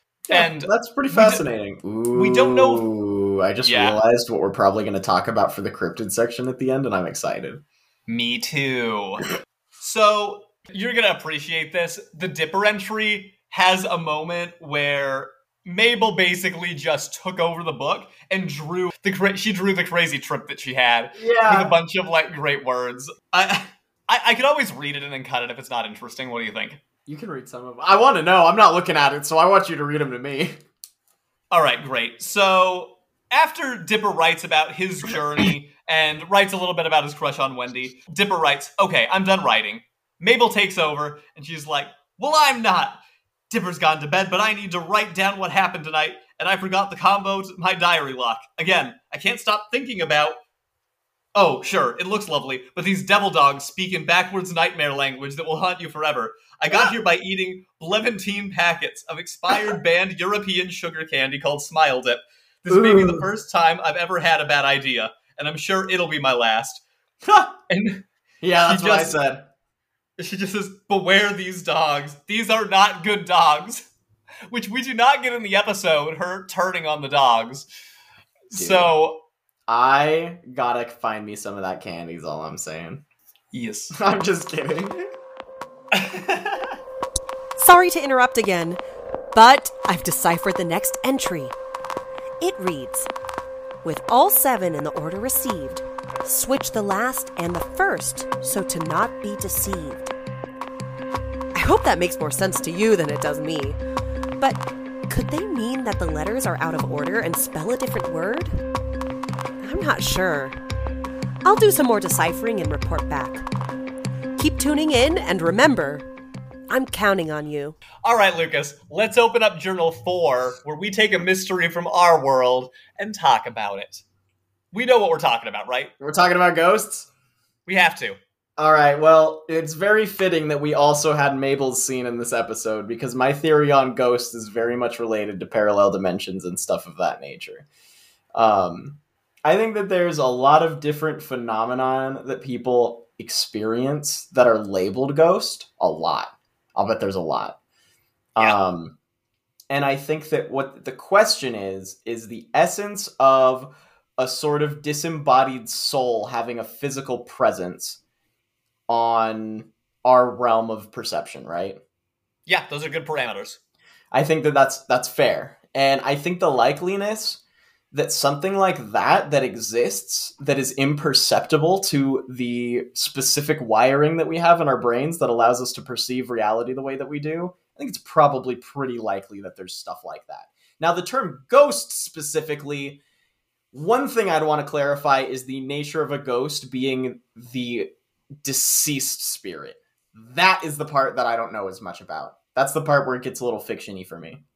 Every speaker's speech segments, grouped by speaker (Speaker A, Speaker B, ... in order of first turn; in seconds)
Speaker A: 0.3-7.6, 21.1-21.8, 27.1-30.5, 62.7-63.2, 67.2-67.5, 68.4-69.5, 78.5-78.9, 79.7-83.0, 83.9-85.0, 126.0-127.1, 128.6-137.7, 138.3-147.6, 148.4-148.9, 149.7-158.0, 158.9-161.8, 164.1-167.4, 167.9-183.0, 183.7-187.9, 188.4-194.4
Speaker B: 0.3-1.4, 2.1-2.9, 3.6-4.0, 8.1-9.2, 9.8-26.8, 31.5-50.4, 51.3-66.8, 67.7-68.0, 68.6-69.2, 70.2-73.9, 74.5-77.7, 78.5-79.2, 83.5-84.0, 85.9-86.7, 118.0-124.0, 124.7-125.9, 127.7-128.2, 162.4-163.6
Speaker C: 87.6-88.8, 89.3-91.5, 92.4-93.1, 93.8-100.1, 101.5-103.8, 104.4-108.5, 109.6-110.6, 111.4-113.5, 114.4-116.0, 116.7-117.8